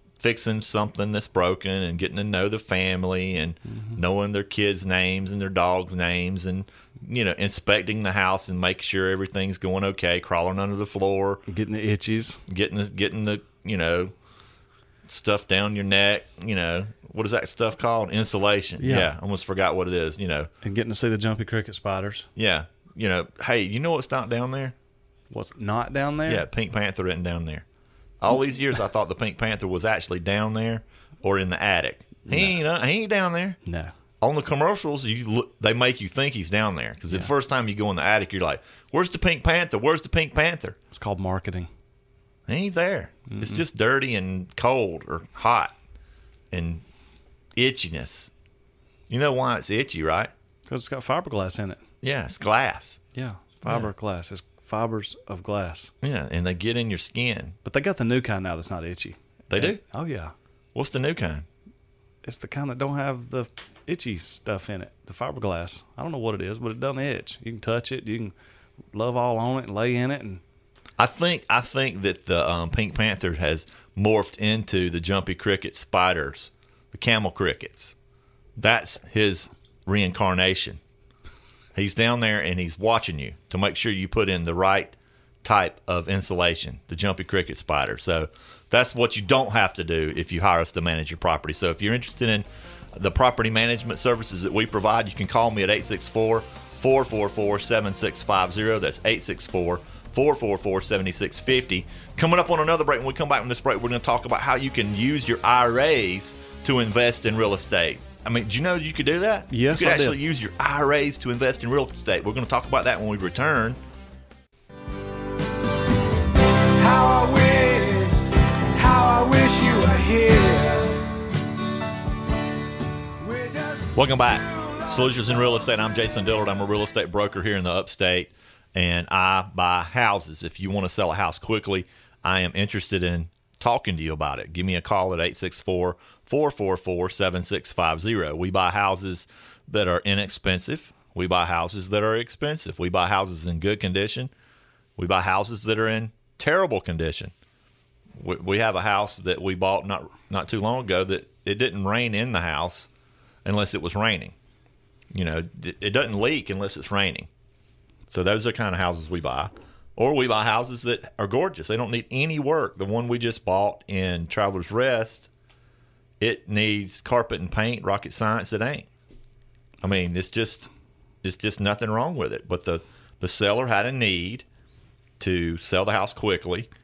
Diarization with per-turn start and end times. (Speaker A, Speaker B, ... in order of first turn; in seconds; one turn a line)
Speaker A: 0.2-11.4
Speaker B: 3.7-4.0
Speaker B: 11.5-12.4
Speaker A: 12.5-14.1
Speaker A: 15.1-20.5
Speaker B: 18.8-19.1
Speaker B: 20.6-22.3
Speaker A: 22.4-24.7
Speaker B: 25.3-26.4
Speaker A: 26.2-27.6
Speaker A: 28.2-33.6
Speaker B: 32.2-32.6
Speaker B: 33.6-33.9
Speaker A: 34.2-40.8
Speaker B: 40.9-41.7
Speaker A: 42.5-45.7
Speaker B: 43.3-43.6
Speaker A: 46.5-46.8
Speaker A: 47.5-48.3
Speaker A: 49.1-50.3
Speaker B: 50.7-51.8
Speaker A: 52.0-53.0
Speaker B: 53.1-55.9
Speaker A: 56.0-57.6
Speaker B: 57.6-60.3
Speaker A: 59.5-59.8
Speaker A: 60.7-61.5
Speaker B: 62.2-68.3
Speaker B: 68.9-70.4
Speaker A: 71.0-77.9
Speaker A: 78.6-80.8
Speaker A: 81.7-113.8
Speaker B: 109.5-110.2
Speaker C: 116.6-121.1
Speaker C: 123.2-125.4
Speaker A: 123.9-144.3
Speaker A: 145.0-147.3
Speaker A: 148.2-152.9
Speaker A: 153.4-154.3
Speaker A: 155.1-157.3
Speaker A: 158.1-165.3
Speaker A: 166.2-168.9
Speaker A: 169.8-170.7
Speaker A: 171.2-174.4
Speaker A: 175.2-176.7